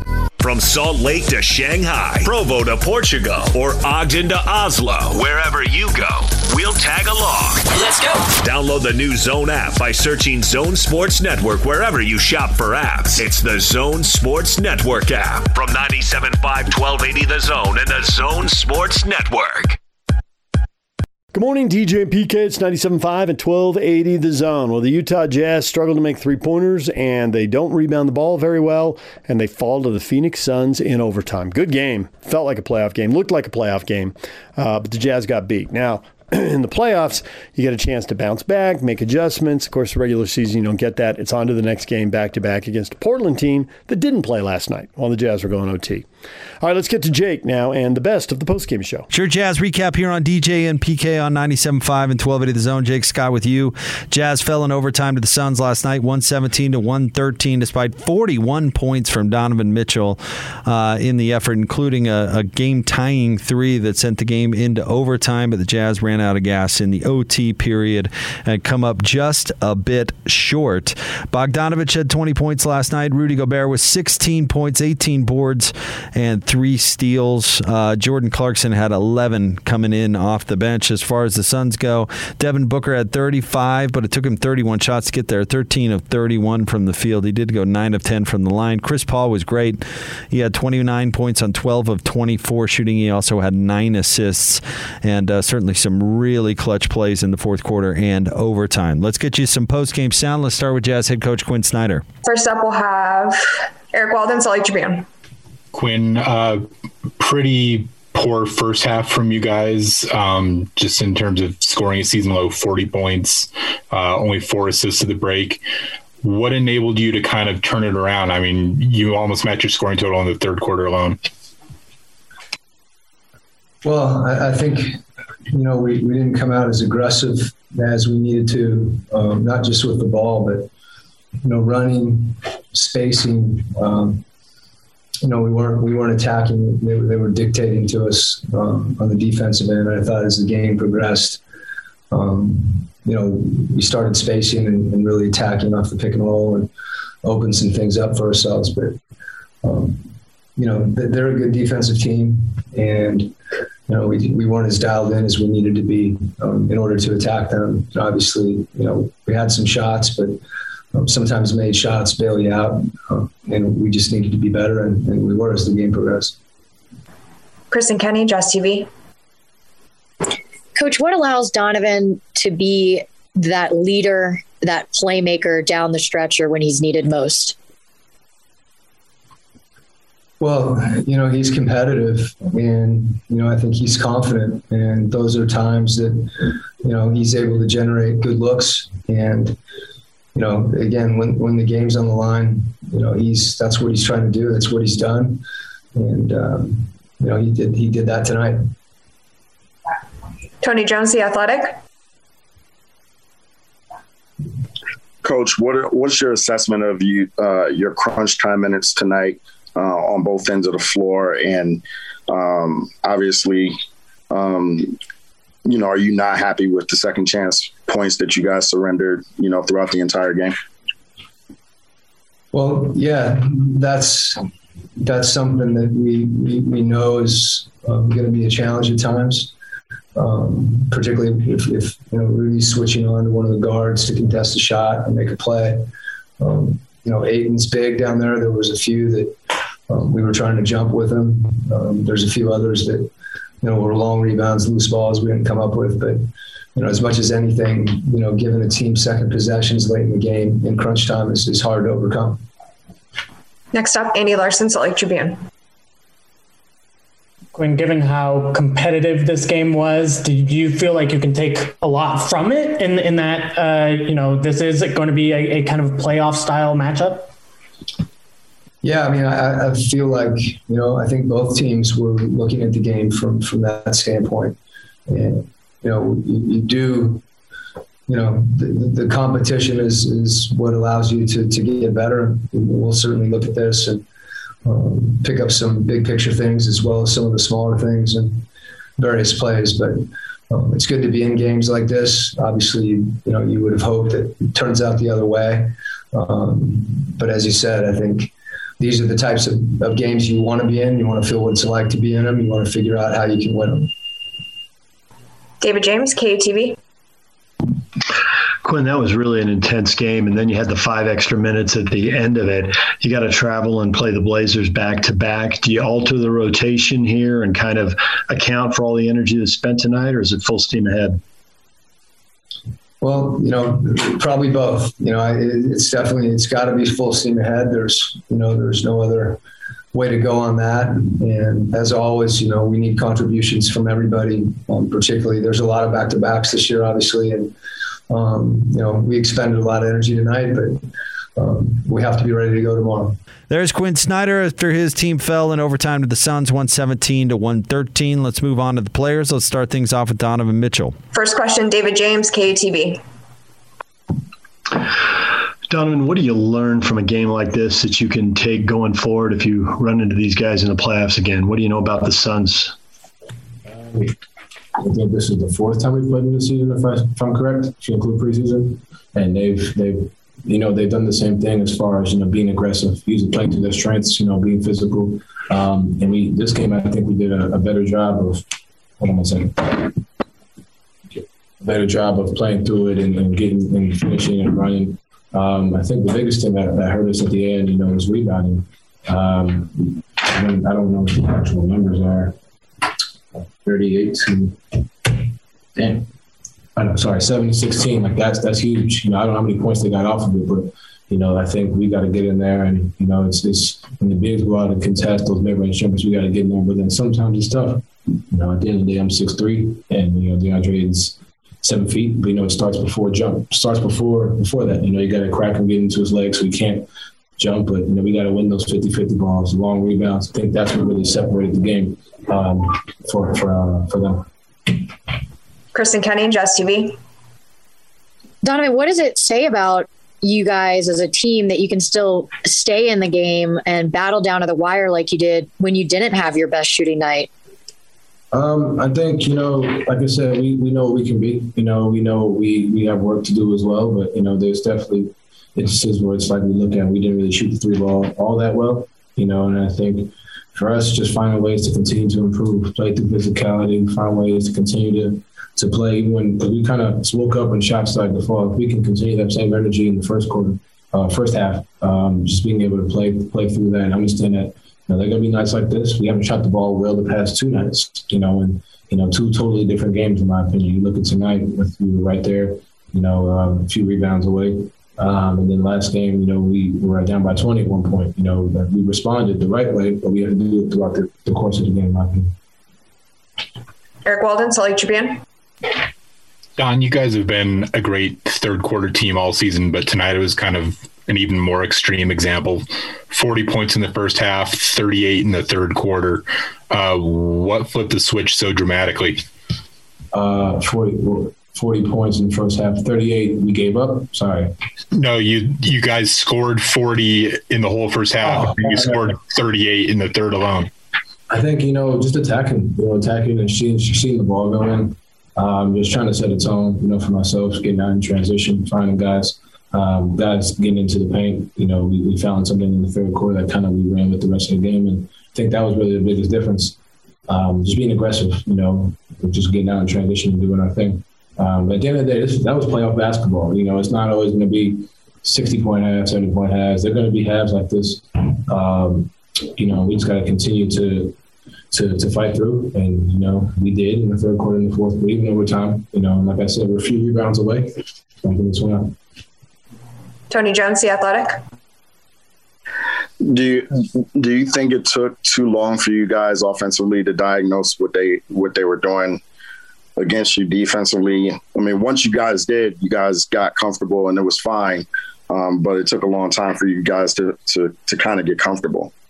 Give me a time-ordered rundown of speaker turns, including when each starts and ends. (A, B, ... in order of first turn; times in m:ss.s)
0:00.4-0:19.8 A
0:21.3-0:46.1 B
0:46.6-0:49.1 B
0:49.1-1:42.0 C
1:42.2-1:45.1 D
1:45.7-1:46.7 E
1:47.2-1:55.6 E
1:56.2-2:01.2 E
2:03.8-2:10.7 F
2:11.4-2:14.2 F
2:15.2-2:21.4 F
2:22.1-2:26.7 F
2:27.2-2:29.0 F
2:29.6-2:33.4 F
2:33.9-2:40.4 F
2:40.9-2:46.4 F
2:47.7-2:48.9 D
2:50.8-2:57.6 G
3:00.4-3:09.6 F
3:10.3-3:15.4 F
3:15.9-3:18.6 F
3:20.6-3:21.8 D
3:25.2-3:33.8 H
3:34.3-3:35.0 H
3:35.6-3:40.5 H
3:42.5-3:49.5 F
3:50.2-3:55.9 F
3:56.4-3:59.4 F
3:59.9-4:03.1 F
4:03.6-4:12.4 F
4:13.7-4:15.4 D
4:17.5-4:27.3 I
4:28.8-4:37.2 F
4:38.1-4:44.0 F
4:44.6-4:48.5 F
4:49.0-5:03.9 F
5:05.6-5:06.8 D
5:08.6-5:21.2 B
5:23.0-5:29.4 F
5:29.9-5:37.6 F
5:38.1-5:43.2 F
5:43.5-5:51.0 C
5:51.1-5:53.0 D
5:55.7-6:02.8 B
6:03.7-6:04.2 J
6:04.8-6:18.4 J
6:19.0-6:20.0 J
6:21.1-6:32.4 J
6:33.6-6:36.1 J
6:36.8-6:56.9 J
6:57.4-7:04.9 J
7:05.7-7:07.0 D
7:08.4-7:17.3 G
7:18.3-8:02.3 J
8:04.0-8:05.2 D
8:06.6-8:19.2 E
8:20.1-8:24.5 J
8:24.9-8:30.7 E
8:28.2-8:29.1 J
8:31.3-9:01.2 J
9:01.7-9:09.0 J
9:10.3-9:11.4 D
9:13.2-9:19.2 H
9:20.0-9:28.9 H